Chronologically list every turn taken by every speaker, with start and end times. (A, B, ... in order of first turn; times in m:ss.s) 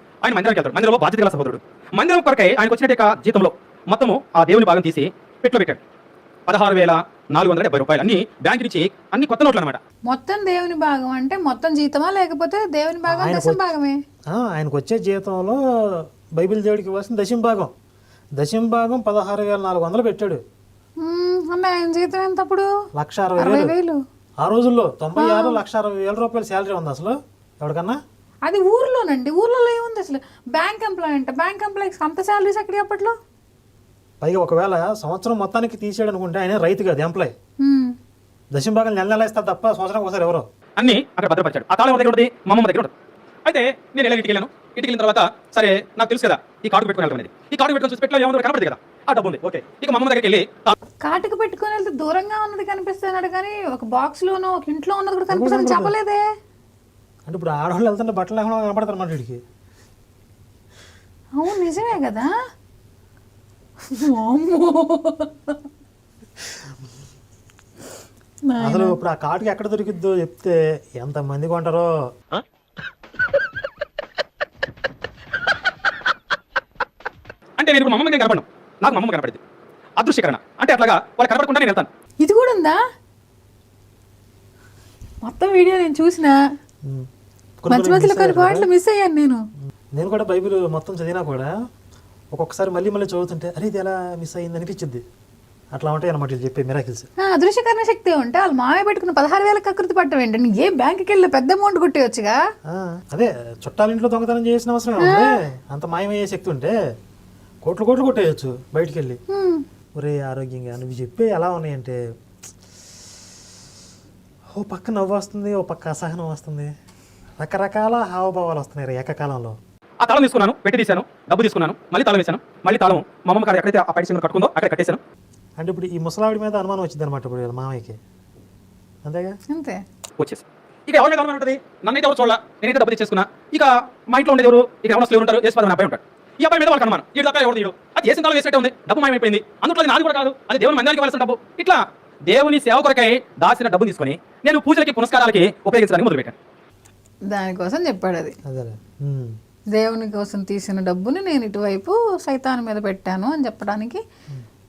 0:00.2-0:05.8 A
0:06.5-0:09.8 A
0:10.1-0:14.0 B
0:13.1-0:13.7 C
0:14.3-0:17.7 C
0:18.4-0:20.4 C
0:21.0-0:22.7 B
0:23.0-0:23.7 C
0:23.4-0:24.0 B
0:24.4-0:28.0 C
0:25.2-0:25.6 B
0:28.4-0:33.1 B
0:34.2-0:37.3 C
0:37.6-0:38.0 B
0:38.5-0:40.4 C
0:40.8-0:42.9 A
0:43.4-0:50.7 A
0:51.0-0:56.2 B
0:55.3-0:55.9 C
0:57.3-0:59.4 C
1:01.4-1:02.3 B
1:03.9-1:05.6 B
1:08.5-1:09.0 B
1:08.6-1:11.9 C
1:17.6-1:19.4 A
1:20.0-1:21.9 A
1:22.2-1:22.8 B
1:25.2-1:26.4 B
1:27.6-1:28.7 C
1:27.7-1:29.4 B
1:30.0-1:31.5 C
1:32.3-1:35.0 C
1:35.7-1:37.1 C
1:37.2-1:42.4 B
1:42.7-1:46.7 C
1:45.0-1:45.2 B
1:47.6-1:49.2 C
1:49.3-1:49.6 B
1:50.0-1:52.0 C
1:54.6-1:56.7 C
1:57.4-1:59.6 C
2:00.0-2:05.0 A
2:05.6-2:08.0 C
2:09.0-2:09.4 C
2:09.5-2:09.8 B
2:10.2-2:26.4 A
2:27.3-2:28.4 B
2:28.5-2:29.4 C
2:29.7-2:34.0 B